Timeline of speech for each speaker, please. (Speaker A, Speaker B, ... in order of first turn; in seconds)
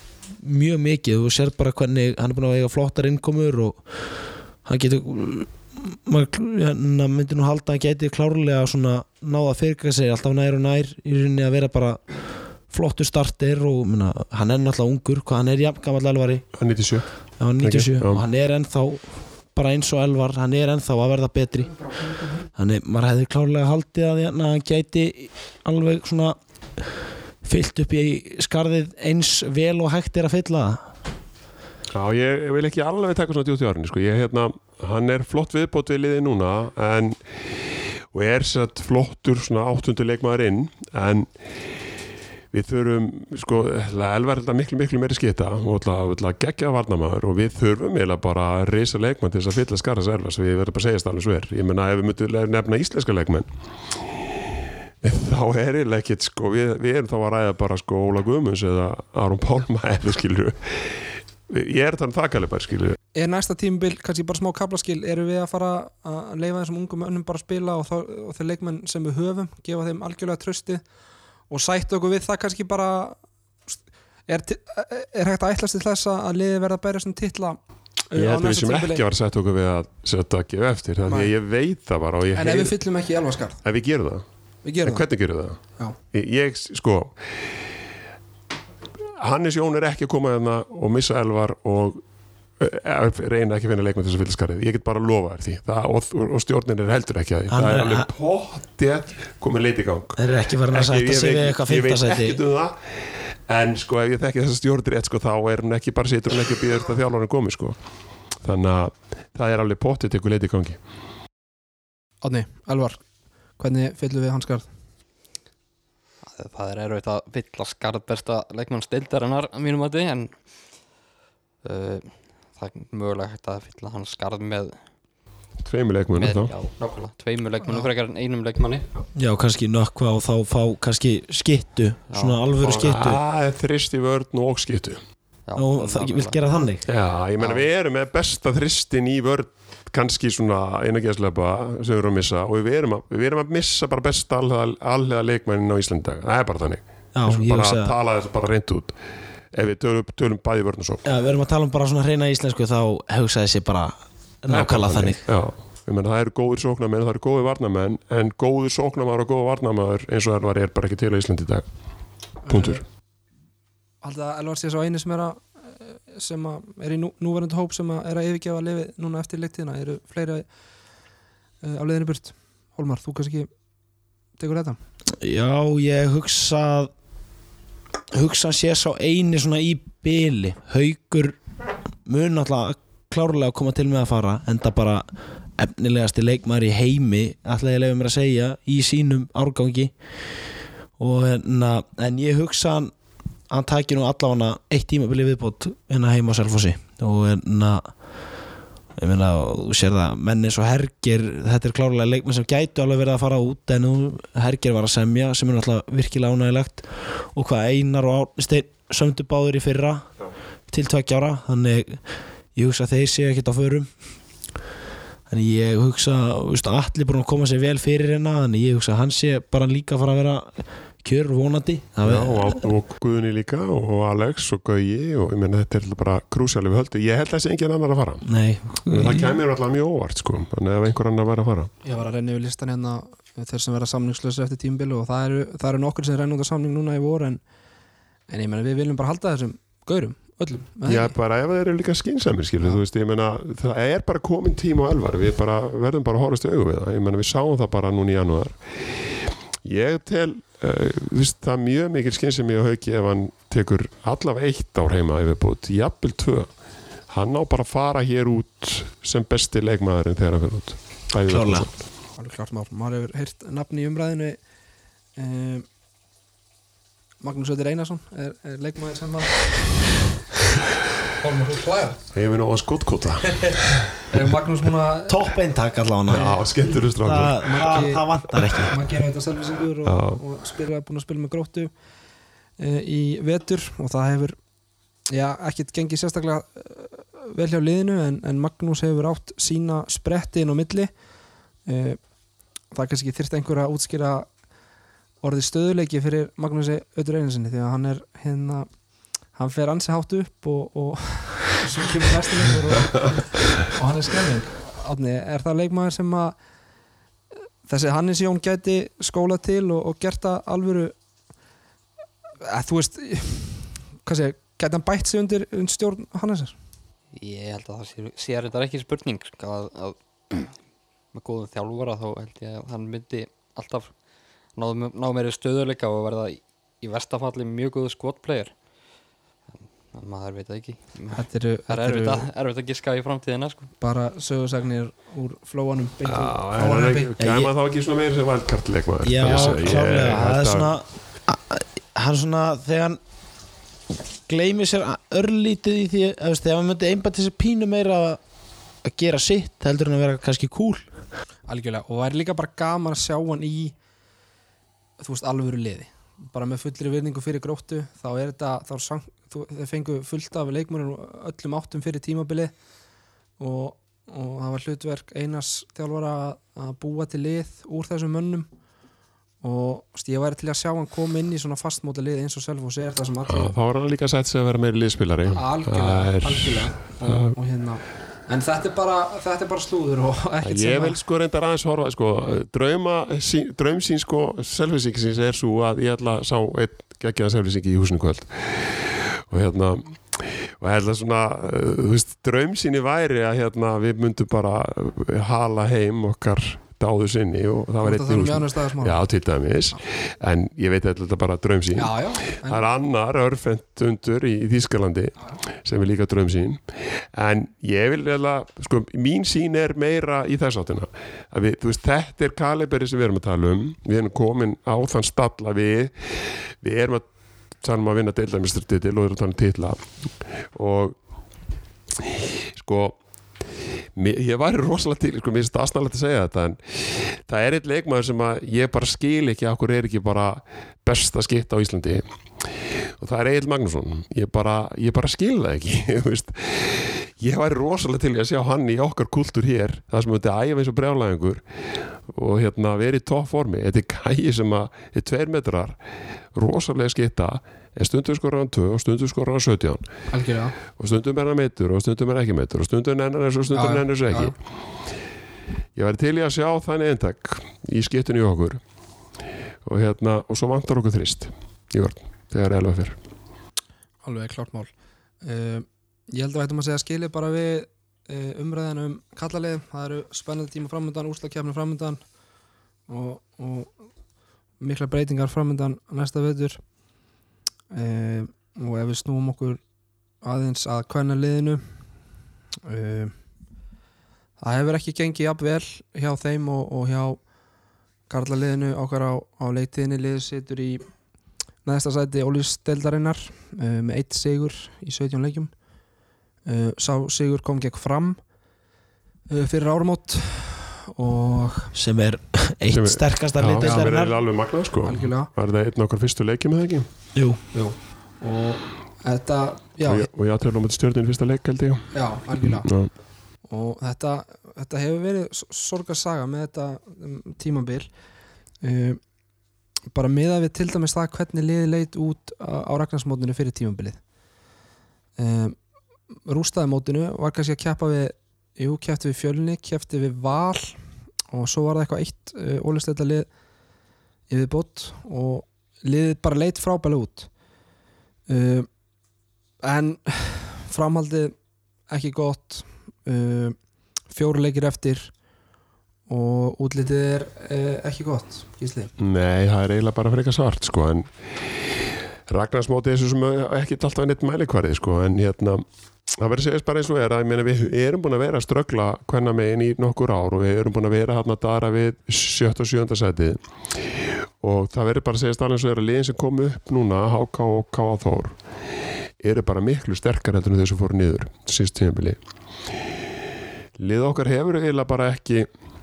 Speaker A: 0.4-16.4, 17.4-21.9, 22.5-26.9, 27.4-30.9, 97.5-98.1, 100.2-102.4, 129.1-133.2, 135.6-136.8, 147.1-147.9, 151.0-155.2, 175.2-176.9, 178.1-181.4, 182.0-189.9, 191.0-192.9, 193.5-197.9, 198.9-210.1, 210.7-212.0, 212.5-213.9, 215.3-222.7, 228.2-229.4, 261.2-261.7, 275.1-276.4, 277.0-278.8, 337.2-337.5, 339.0-343.0, 344.3-348.2, 348.8-350.9, 501.7-504.1, 507.1-507.4
Speaker B: 16.5-18.2, 31.9-37.2, 38.1-41.3, 42.5-53.5, 55.0-63.0, 78.1-82.8, 83.6-84.2, 84.8-87.2, 89.2-92.0, 92.6-100.2, 100.7-102.8, 103.5-107.8, 108.4-110.8, 125.6-126.5, 132.6-135.0, 136.9-148.9, 149.5-151.0, 154.5-161.7, 162.5-162.8, 222.0-228.3, 228.8-231.7, 240.8-248.6, 249.6-256.5, 257.1-261.8, 272.1-274.1, 276.1-277.9, 279.8-280.2, 336.1-340.7, 373.3-377.4, 380.4-417.1, 417.6-419.9, 420.5-420.9, 422.0-423.0, 423.9-432.0, 433.0-441.4, 442.1-445.8, 446.3-449.9, 450.7-454.3, 455.8-458.6, 459.6-463.0, 502.7-506.9, 509.8-512.9, 549.0-551.1, 552.3-555.6, 556.1-563.4, 564.4-568.4, 569.2-572.2, 573.8-575.5
Speaker C: 63.1-70.8, 71.5-77.6, 78.1-79.0, 81.0-81.3, 82.3-83.6, 84.6-85.0, 112.2-113.0, 113.6-114.7, 162.4-162.8, 164.0-170.4, 171.6-173.5, 174.4-174.8, 231.8-237.4, 238.3-241.2, 262.2-264.4, 265.1-265.6, 267.2-269.5, 271.2-272.0, 274.1-275.3, 277.4-281.7, 282.6-284.4, 285.1-290.9, 291.6-292.0, 292.7-294.3, 295.2-298.7, 299.3-306.4, 307.6-310.9, 312.5-316.5, 331.1-332.3, 333.8-337.1, 351.5-353.7, 355.0-362.5, 363.4-368.5, 369.4-373.5, 375.3-381.0, 397.8-399.0, 401.8-402.6, 450.1-450.5, 453.5-454.3, 464.0-472.0, 472.9-473.7, 474.6-476.6, 477.7-479.6, 480.2-481.6, 482.6-483.1, 484.4-487.2, 488.1-490.8, 491.6-495.5, 496.4-498.2, 499.3-501.7, 503.6-503.9, 504.8-505.3, 507.5-510.1, 511.9-512.7, 513.5-517.9, 518.6-519.0, 519.9-524.0, 525.2-525.5, 526.2-530.8, 531.3-533.3, 534.3-537.3, 538.3-538.7, 539.6-541.3, 541.9-543.6, 544.1-545.1, 546.1-548.9
Speaker D: 116.3-120.5, 121.6-124.9, 126.2-128.8, 132.1-132.4, 135.5-136.4, 137.4-137.7, 317.1-320.6, 321.1-324.0, 324.5-328.5, 329.6-333.7